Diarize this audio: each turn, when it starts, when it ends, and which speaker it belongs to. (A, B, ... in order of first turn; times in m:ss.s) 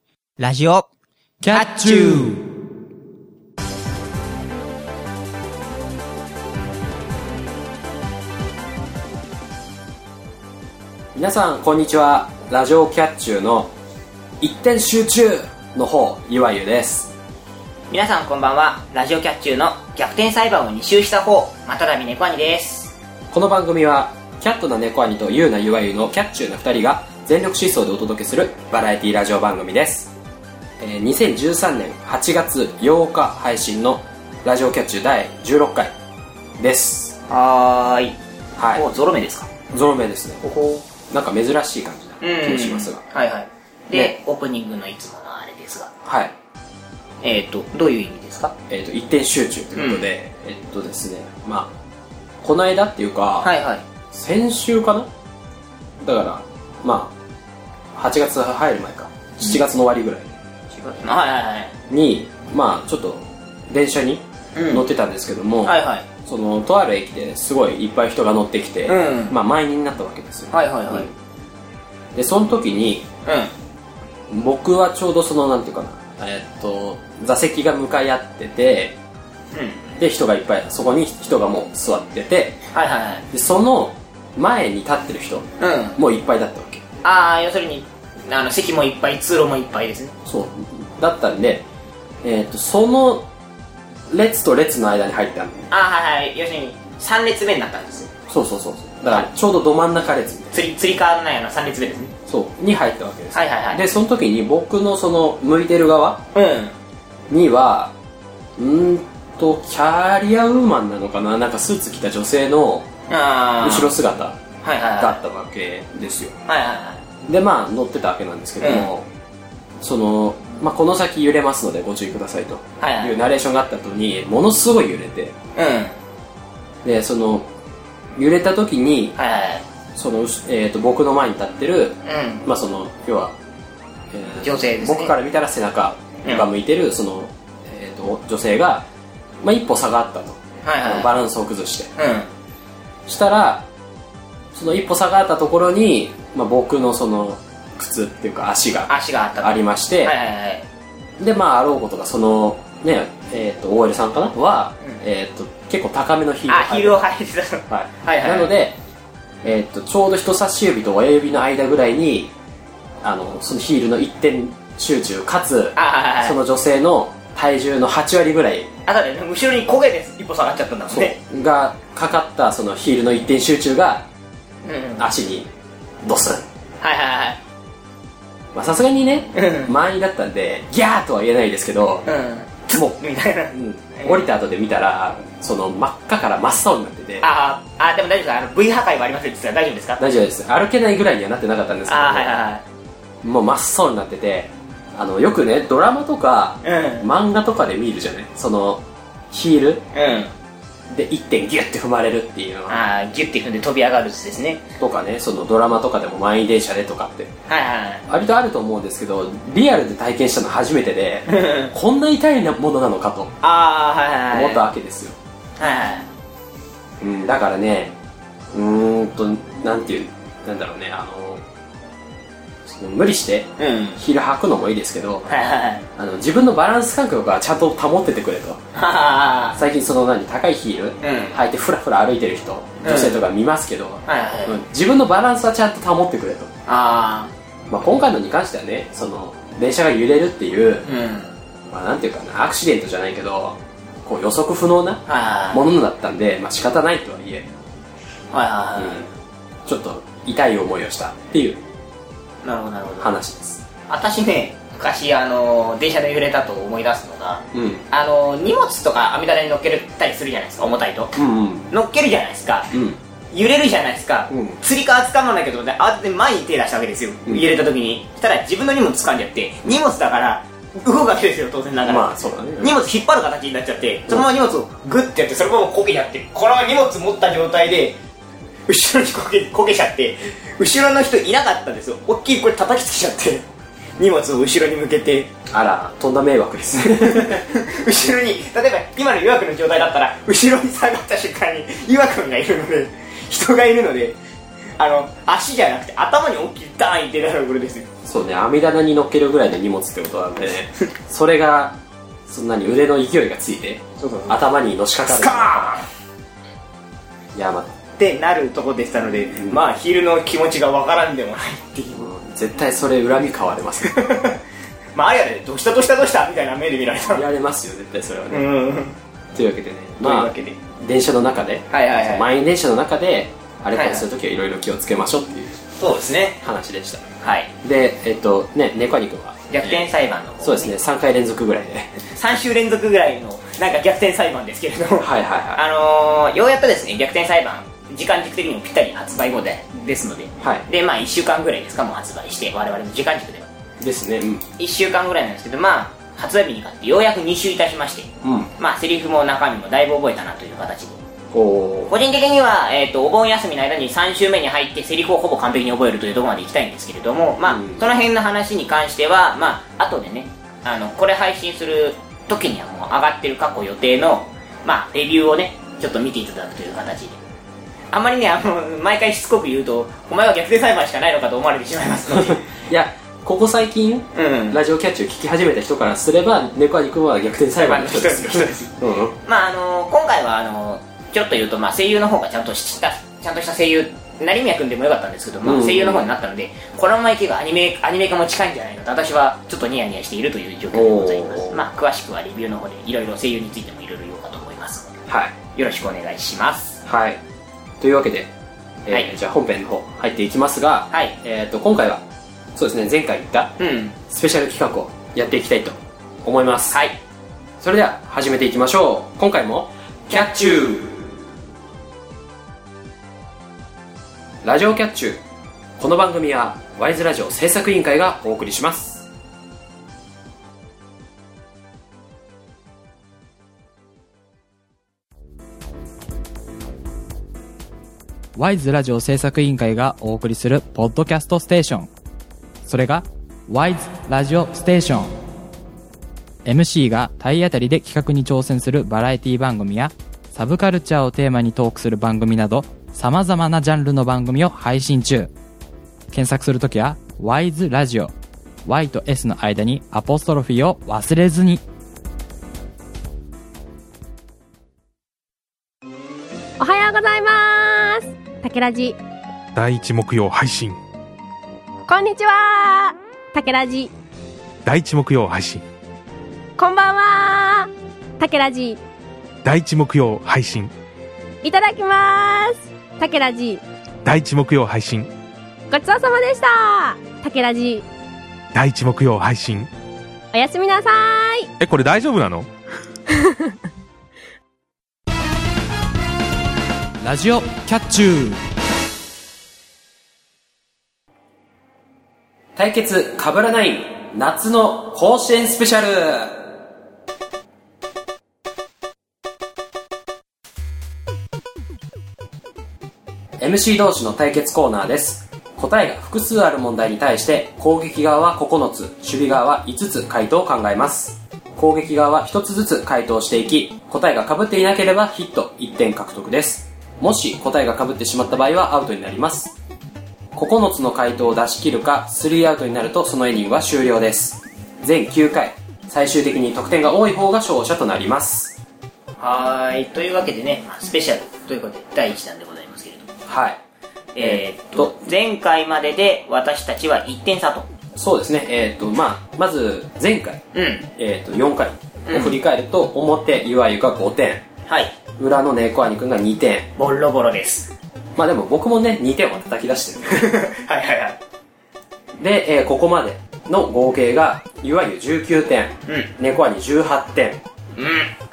0:00.4-0:00.9 A
0:01.4-0:02.4 B
0:01.5-0:02.4 A
0:11.2-0:13.7 C
0:14.4-0:17.1 C
0:17.9-0:22.9 A
0:23.3-0:30.1 C
0:30.8-0:35.9 C
0:36.6-0:37.2 C
0:37.3-0:38.2 A
0:38.6-0:38.9 C
0:38.7-0:39.5 A
0:39.7-0:43.0 C
0:40.4-0:40.8 A
0:42.2-0:46.0 A
0:46.1-0:46.3 C
0:47.2-0:48.5 A
0:48.7-0:51.7 C
0:49.7-0:50.1 A
0:52.4-0:53.5 C
0:53.4-0:53.8 A
0:54.1-0:55.1 C
0:56.0-0:57.2 C
0:58.0-1:00.3 C
1:00.7-1:01.8 A
1:01.9-1:11.1 C
1:04.6-1:04.9 A
1:05.6-1:06.1 A
1:08.9-1:09.4 A
1:10.5-1:11.1 A
1:12.1-1:13.1 C
1:13.2-1:13.5 A
1:14.3-1:19.0 C
1:19.5-1:19.9 A
1:20.0-1:22.6 C
1:22.7-1:23.3 A
1:23.3-1:26.8 C
1:25.6-1:26.0 A
1:27.0-1:30.2 A
1:30.2-1:31.6 C
1:32.2-1:33.3 C
1:34.1-1:35.7 C
1:35.7-1:38.1 A
1:38.3-1:40.5 C
1:40.5-1:42.1 A
1:42.3-1:46.2 C
1:43.3-1:43.8 A
1:46.4-1:46.8 A
1:47.3-1:47.9 C
1:48.6-1:52.9 C
1:53.1-1:54.0 A
1:53.6-1:54.4 C
1:54.6-1:55.2 A
1:55.0-1:56.4 C
1:56.5-1:57.0 A
1:57.3-1:59.1 C
1:58.6-1:59.0 A
1:59.8-2:05.4 C
2:02.8-2:03.2 A
2:05.6-2:06.0 A
2:06.8-2:07.5 C
2:08.2-2:09.2 C
2:09.2-2:09.6 A
2:10.0-2:13.4 C
2:12.0-2:12.4 A
2:14.1-2:18.9 C
2:14.4-2:15.1 A
2:19.4-2:21.9 C
2:20.6-2:21.2 A
2:22.0-2:22.3 A
2:23.1-2:23.7 C
2:24.5-2:30.2 C
2:28.9-2:30.7 A
2:31.2-2:37.1 C
2:36.5-2:38.5 A
2:37.7-2:38.8 C
2:39.4-2:42.3 C
2:43.0-2:48.7 C
2:45.8-2:46.4 A
2:48.9-2:51.2 A
2:50.9-2:54.1 C
2:54.6-2:55.1 A
2:55.0-2:55.5 C
2:56.0-2:56.5 C
2:56.8-2:57.4 A
2:58.5-3:02.1 C
2:59.3-2:59.7 A
3:02.1-3:04.2 A
3:02.7-3:03.0 C
3:03.5-3:07.3 C
3:07.2-3:10.0 A
3:10.0-3:12.4 C
3:11.9-3:12.6 A
3:13.2-3:19.8 C
3:16.6-3:17.1 A
3:19.9-3:20.3 A
3:20.9-3:22.8 C
3:22.7-3:24.6 A
3:24.8-3:27.3 C
3:27.5-3:28.0 A
3:28.1-3:33.4 C
3:31.3-3:31.7 A
3:33.4-3:34.6 A
3:34.3-3:35.2 C
3:35.6-3:36.1 A
3:37.0-3:38.0 C
3:38.5-3:41.4 C
3:42.6-3:45.3 C
3:43.6-3:44.0 A
3:45.3-3:45.8 A
3:46.0-3:48.6 C
3:48.8-3:49.6 A
3:49.6-3:56.5 C
3:51.0-3:51.4 A
3:52.8-3:53.2 A
3:54.1-3:54.6 A
3:56.7-3:57.3 A
3:57.7-4:00.9 C
4:00.8-4:01.3 A
4:01.7-4:07.5 C
4:05.1-4:05.7 A
4:08.3-4:09.1 A
4:08.8-4:09.1 C
4:09.6-4:11.6 C
4:12.4-4:13.2 A
4:13.0-4:13.6 C
4:13.9-4:21.2 A
4:17.5-4:17.8 C
4:21.1-4:21.7 C
4:21.7-4:22.7 A
4:22.7-4:23.0 C
4:23.3-4:38.0 A
4:24.3-4:24.6 C
4:31.8-4:32.8 C
4:38.7-4:43.4 A
4:44.0-4:45.3 A
4:45.5-4:47.4 C
4:47.0-4:54.2 A
4:54.8-4:57.9 A
4:58.0-5:05.8 C
5:04.0-5:04.5 A
5:05.0-5:05.9 A
5:07.4-5:07.8 C
5:08.0-5:12.0 A
5:11.9-5:14.0 C
5:13.9-5:14.4 A
5:15.0-5:17.2 A
5:17.1-5:18.4 C
5:18.3-5:19.0 A
5:19.3-5:25.6 C
5:20.0-5:20.6 A
5:21.7-5:22.3 A
5:23.7-5:24.1 A
5:25.8-5:26.4 A
5:26.4-5:29.9 C
5:27.2-5:27.5 A
5:29.5-5:30.7 A
5:30.4-5:32.0 C
5:32.1-5:43.5 A
5:35.0-5:35.6 C
5:40.4-5:40.7 C
5:43.8-5:44.4 C
5:44.6-5:51.0 A
5:48.2-5:48.5 C
5:51.3-5:51.9 C
5:51.9-6:07.2 A
5:57.4-5:57.8 C
6:07.9-6:12.5 A
6:12.1-6:19.2 C
6:14.2-6:14.6 A
6:17.6-6:35.0 A
6:25.4-6:26.1 C
6:30.7-6:31.7 C
6:35.1-6:35.4 C
6:35.5-6:36.8 A
6:36.8-6:37.2 C
6:37.8-6:38.3 C
6:38.8-6:42.0 C
6:40.9-6:41.2 A
6:42.6-6:43.6 C
6:43.6-6:44.0 A
6:44.1-6:46.8 C
6:46.7-6:47.0 A
6:47.6-6:51.0 C
6:50.1-6:50.6 A
6:54.4-6:55.2 C
6:55.8-6:59.1 C
7:08.4-7:11.9 B
7:12.7-7:15.1 B
7:16.4-7:25.3 B
7:26.1-7:28.1 B
7:28.7-7:31.6 B
7:36.6-7:39.0 D
7:39.6-7:40.8 E
7:41.9-7:43.9 D
7:44.6-7:45.6 E
7:46.6-7:48.8 D
7:49.4-7:50.7 E
7:51.4-7:53.6 D
7:54.0-7:55.1 E
7:55.7-7:57.8 D
7:58.5-7:59.7 E
8:00.3-8:01.5 D
8:01.6-8:02.5 E
8:03.1-8:03.5 D
8:07.0-8:08.4 B
8:12.6-8:16.5 C
8:23.4-8:39.6 C
8:40.3-8:48.6 C
8:49.2-8:53.1 A
8:53.3-8:53.6 C
8:54.2-8:57.7 A
8:54.2-8:55.1 C
8:58.0-9:00.4 C
9:00.5-9:00.9 A
9:01.0-9:04.4 C
9:02.1-9:02.4 A
9:04.7-9:04.9 A
9:05.2-9:06.7 C
9:06.8-9:07.7 A
9:08.2-9:10.2 C
9:10.1-9:11.2 A
9:12.2-9:17.4 C
9:17.8-9:18.1 A